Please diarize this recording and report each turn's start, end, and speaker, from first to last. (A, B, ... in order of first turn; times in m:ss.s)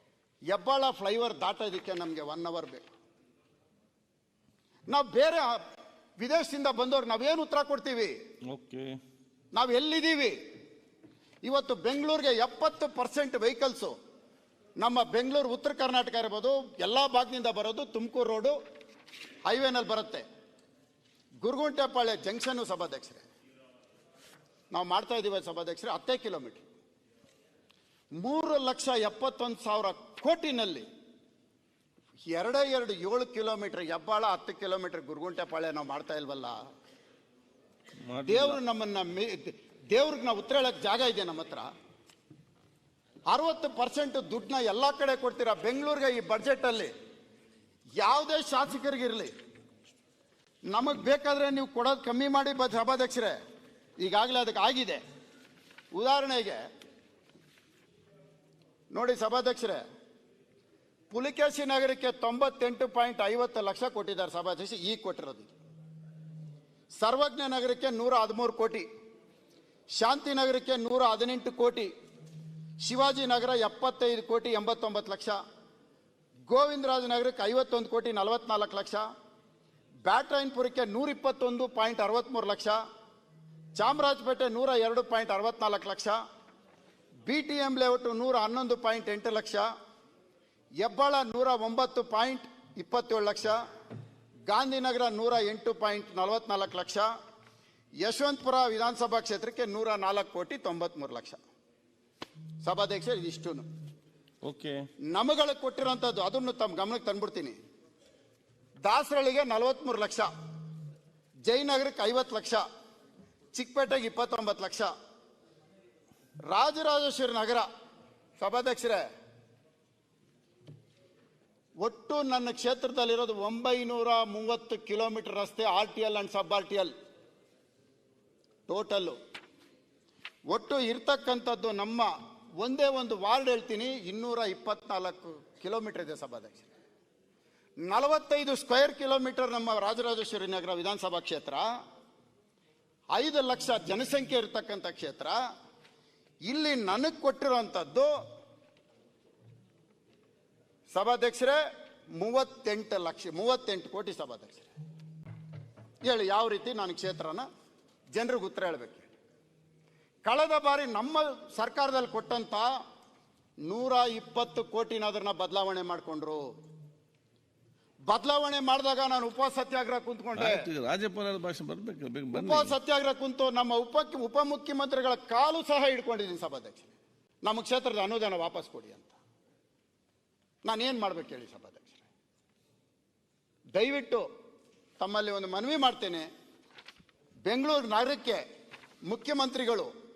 0:00.5-0:02.9 A
0:04.9-0:05.6 A
0:06.2-0:08.2 A
0:08.5-0:09.0 B
0:09.5-0:10.4 A
0:11.4-0:14.0 A
0:14.8-0:18.6 A
0:19.5-0:20.2 A
0:21.4-0:23.3 A
0:24.7-0:26.6 A
0:28.2-0:30.9 A
0:32.3-0:36.6 A
0:38.0-0:38.6 B
0:38.3-0:41.7 A
0:43.3-0:46.9 A
0:48.0-0:49.3 A
0:50.7-0:53.4 A
0:54.0-0:55.0 A
0:56.0-0:56.6 A
0:58.9-0:59.8 A
1:01.1-1:05.5 A
1:07.0-1:08.9 A
1:10.0-1:11.9 A
1:12.8-1:15.4 A
1:16.5-1:19.0 A
1:20.0-1:22.8 A
1:23.8-1:26.2 A
1:27.3-1:29.7 A
1:30.8-1:33.6 A
1:34.5-1:37.1 A
1:38.0-1:41.4 A
1:42.6-1:43.6 A
1:44.4-1:44.8 B
1:45.1-1:47.6 A
1:48.8-1:50.3 A
1:51.4-1:52.6 A
1:53.5-1:54.9 A
1:56.5-1:57.7 A
1:58.4-1:59.0 A
2:01.8-2:06.9 A
2:08.7-2:09.2 A
2:10.5-2:16.7 A
2:17.9-2:21.7 A
2:23.1-2:25.4 A
2:26.5-2:28.1 A
2:30.9-2:31.6 A
2:32.2-2:34.7 A
2:36.0-2:37.5 A
2:38.1-2:39.1 A
2:40.2-2:42.7 A
2:43.7-2:46.4 A
2:48.1-2:50.7 A
2:50.4-2:52.8 B
2:52.3-2:56.9 A
2:57.4-2:59.2 A
3:00.6-3:02.0 A
3:03.8-3:04.2 A
3:05.0-3:06.3 A
3:07.5-3:08.4 A
3:09.1-3:09.9 A